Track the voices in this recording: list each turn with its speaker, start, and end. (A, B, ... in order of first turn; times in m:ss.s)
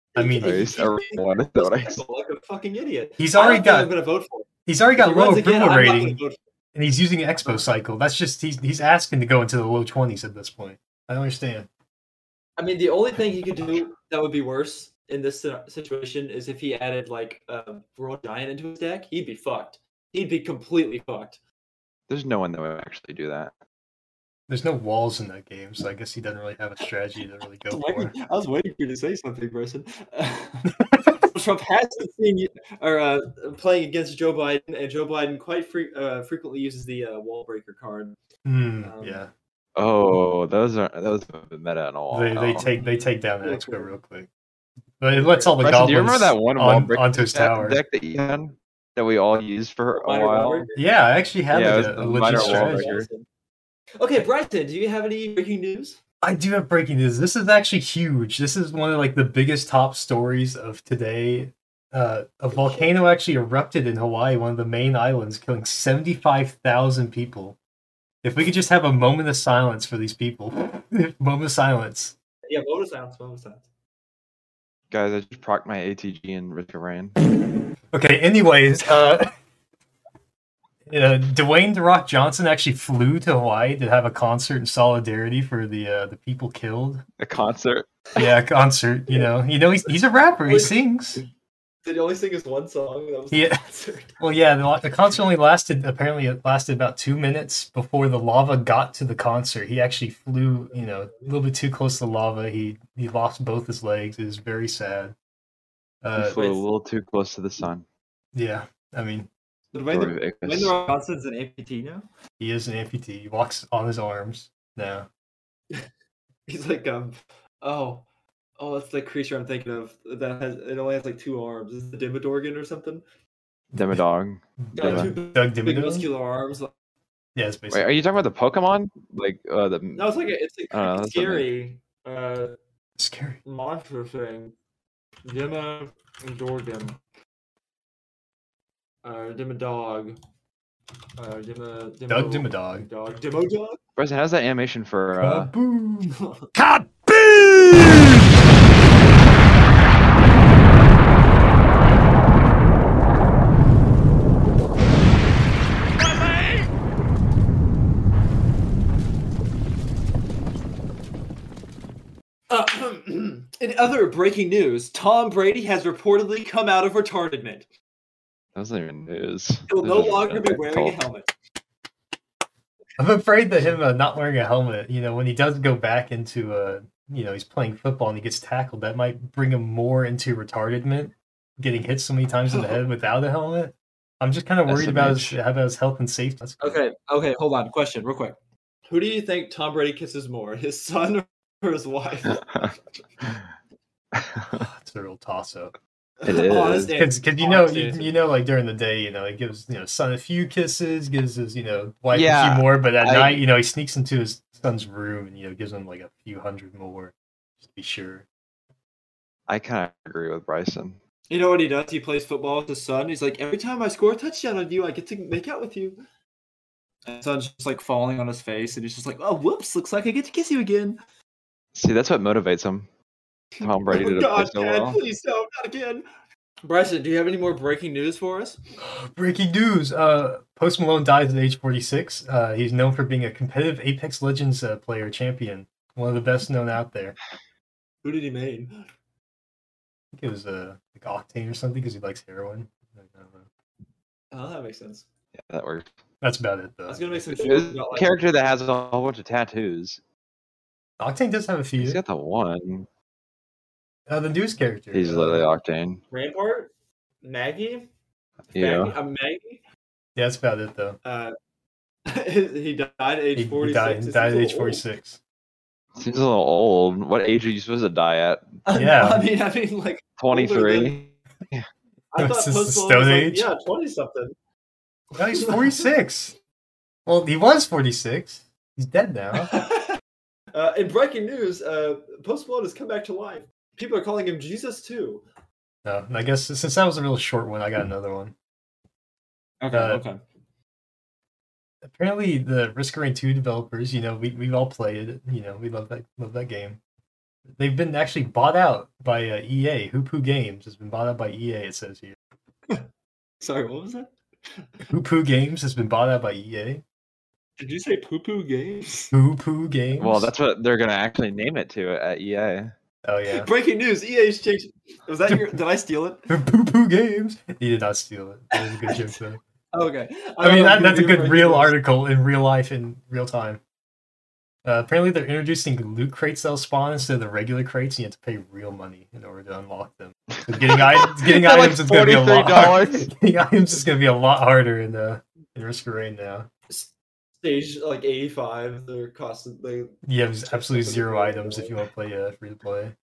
0:00.1-0:00.7 A
0:00.1-0:06.4 B
0:00.4-0:02.0 C
0:03.2-0:03.9 A
0:04.6-0:06.2 A
0:06.7-0:11.7 A
0:12.6-0:21.4 B
0:22.1-0:23.5 C
0:24.5-0:28.1 A
0:27.7-0:38.2 B
0:30.8-0:31.2 A
0:38.4-0:39.3 A
0:38.8-0:39.2 B
0:39.8-0:42.7 C
0:42.1-0:44.3 A
0:42.6-0:43.9 B
0:45.0-0:47.8 A
0:45.1-0:45.6 B
0:45.6-0:50.7 C
0:49.9-0:50.9 B
0:50.8-0:52.9 A
0:51.5-0:53.1 C
0:52.0-0:53.2 B
0:54.0-0:56.0 B
0:56.2-1:07.6 A
1:02.5-1:02.8 B
1:08.2-1:12.1 A
1:12.5-1:13.6 B
1:14.9-1:17.2 C
1:17.9-1:19.3 A
1:20.8-1:27.0 A
1:27.2-1:27.9 C
1:28.2-1:31.2 A
1:30.4-1:30.8 B
1:31.8-1:34.1 B
1:33.3-1:33.6 A
1:34.2-1:45.1 A
1:46.0-1:46.4 A
1:46.2-1:47.8 C
1:46.3-1:46.6 B
1:48.3-1:49.3 A
1:49.7-1:52.0 B
1:49.8-1:50.8 C
1:52.4-1:55.1 A
1:56.5-1:58.0 B
1:58.6-2:03.0 B
2:03.7-2:05.1 C
2:03.7-2:04.0 A
2:04.7-2:06.0 A
2:04.7-2:06.7 B
2:07.3-2:07.9 A
2:07.7-2:10.2 C
2:09.9-2:12.6 B
2:10.7-2:11.5 C
2:13.0-2:13.4 A
2:13.4-2:14.5 B
2:15.2-2:17.0 B
2:19.0-2:20.2 B
2:21.2-2:23.8 B
2:22.1-2:22.9 A
2:24.0-2:25.5 C
2:25.2-2:28.0 A
2:26.1-2:26.5 B
2:42.5-2:47.7 B
2:48.5-2:51.0 C
2:49.7-2:51.3 B
2:53.0-3:06.8 A
3:02.5-3:02.8 B
3:04.7-3:05.4 C
3:06.6-3:08.4 B
3:08.9-3:13.0 B
3:14.1-3:14.7 C
3:14.6-3:15.7 A
3:16.2-3:18.1 B
3:16.2-3:16.9 C
3:16.9-3:28.2 A
3:22.1-3:23.4 C
3:29.5-3:31.0 C
3:31.3-3:36.0 B
3:37.0-3:41.0 B
3:41.7-3:42.9 C
3:43.6-3:46.0 B
3:43.6-3:45.0 C
3:46.6-3:48.6 B
3:48.8-3:57.2 A
3:58.0-3:58.8 B
4:00.1-4:03.4 A
4:04.3-4:05.0 B
4:05.4-4:05.9 C
4:06.2-4:07.2 A
4:06.9-4:08.2 B
4:07.3-4:10.0 C
4:11.0-4:12.0 A
4:11.8-4:12.9 C
4:14.1-4:15.5 A
4:14.9-4:16.0 C
4:16.1-4:16.7 B
4:17.2-4:17.9 B
4:18.5-4:18.9 C
4:18.6-4:19.6 B
4:20.2-4:21.0 A
4:21.0-4:21.4 B
4:22.0-4:24.8 B
4:23.4-4:25.2 A
4:26.0-4:28.4 C
4:28.6-4:31.0 B
4:28.7-4:29.3 A
4:30.2-4:31.6 C
4:32.1-4:34.3 B
4:32.2-4:33.5 A
4:35.1-4:36.4 A
4:35.2-4:35.8 B
4:37.0-4:39.5 A
4:39.5-4:40.0 B
4:40.5-4:45.2 B
4:45.8-4:48.3 A
4:49.6-4:50.2 B
4:49.7-4:50.0 A
4:51.8-4:56.8 A
4:57.6-5:02.2 A
5:03.4-5:04.7 B
5:04.9-5:06.8 A
5:07.6-5:09.1 B
5:09.1-5:10.3 A
5:10.0-5:12.7 C
5:13.0-5:13.5 A
5:13.3-5:16.2 B
5:15.3-5:15.6 A
5:16.3-5:19.4 A
5:18.6-5:19.1 B
5:19.7-5:21.7 B
5:20.4-5:23.6 A
5:24.6-5:36.5 A
5:30.4-5:33.1 C
5:36.7-5:41.7 B
5:40.0-5:42.9 A